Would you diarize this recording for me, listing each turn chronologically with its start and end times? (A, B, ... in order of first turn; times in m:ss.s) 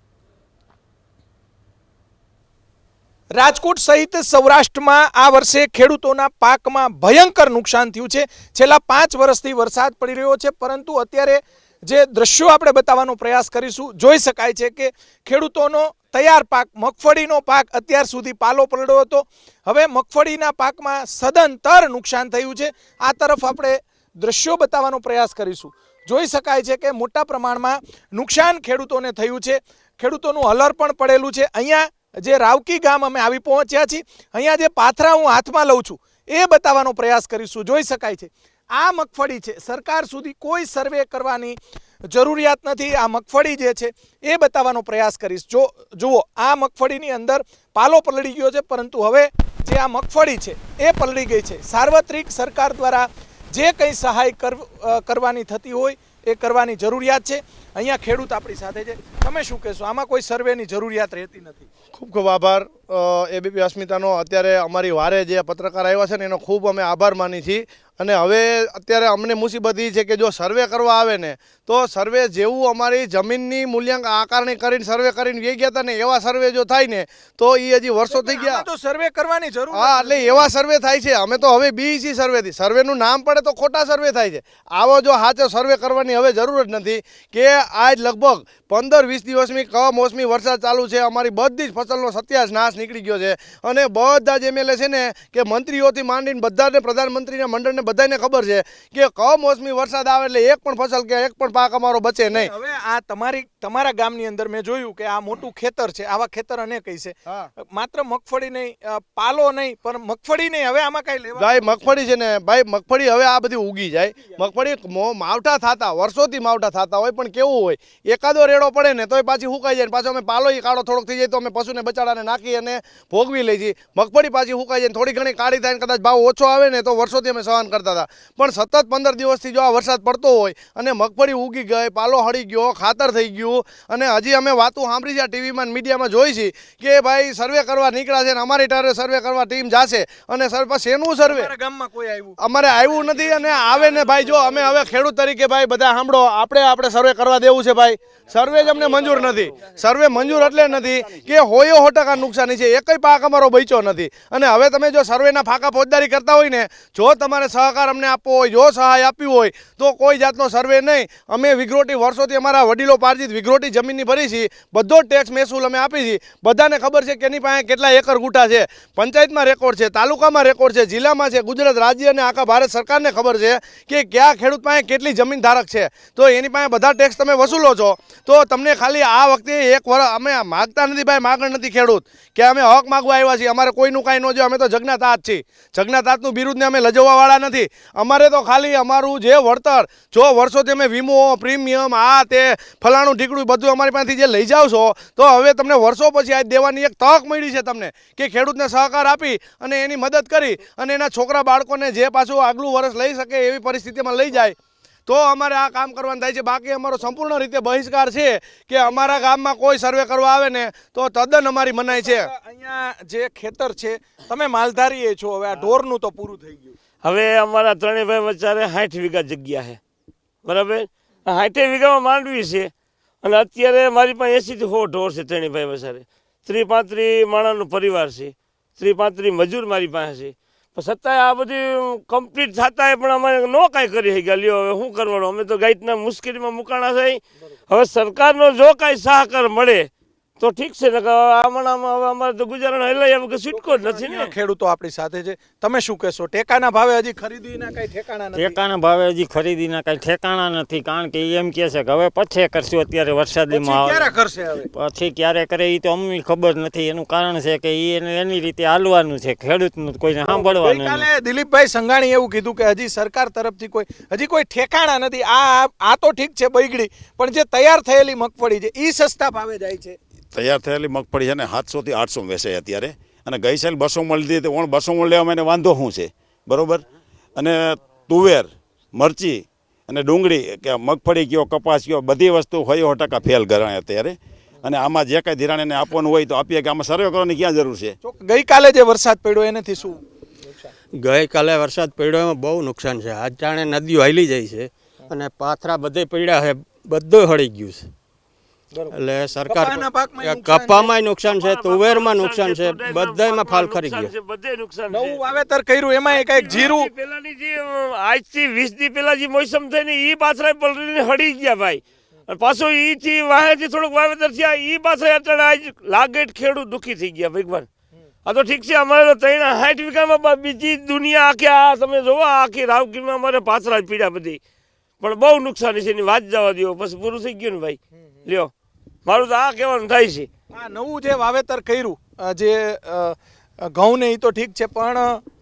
0:03.3-1:01.7 A
1:01.9-1:18.6 B
1:18.1-1:20.4 A
1:19.7-1:42.5 B
1:42.3-1:51.9 A
1:51.4-2:21.5 B
2:21.3-2:22.4 A
2:22.4-3:24.6 B
2:22.9-2:24.6 A
3:25.1-3:32.3 B
3:31.9-3:36.8 A
3:37.0-3:39.8 C
3:40.4-3:42.7 C
3:43.2-3:59.9 C
4:00.4-4:04.3 C
4:03.5-4:08.6 A
4:08.4-4:13.9 D
4:13.5-4:14.7 A
4:14.8-4:21.0 D
4:20.2-4:30.0 A
4:30.3-4:36.8 E
4:37.4-4:48.0 E
4:48.0-4:50.7 A
4:51.0-4:57.9 F
4:58.7-5:00.9 A
4:58.9-5:04.1 F
5:01.3-5:05.2 C
5:04.9-5:06.9 A
5:06.1-5:17.7 C
5:18.2-5:24.4 C
5:25.0-5:28.5 C
5:29.0-5:30.3 C
5:30.5-5:35.2 A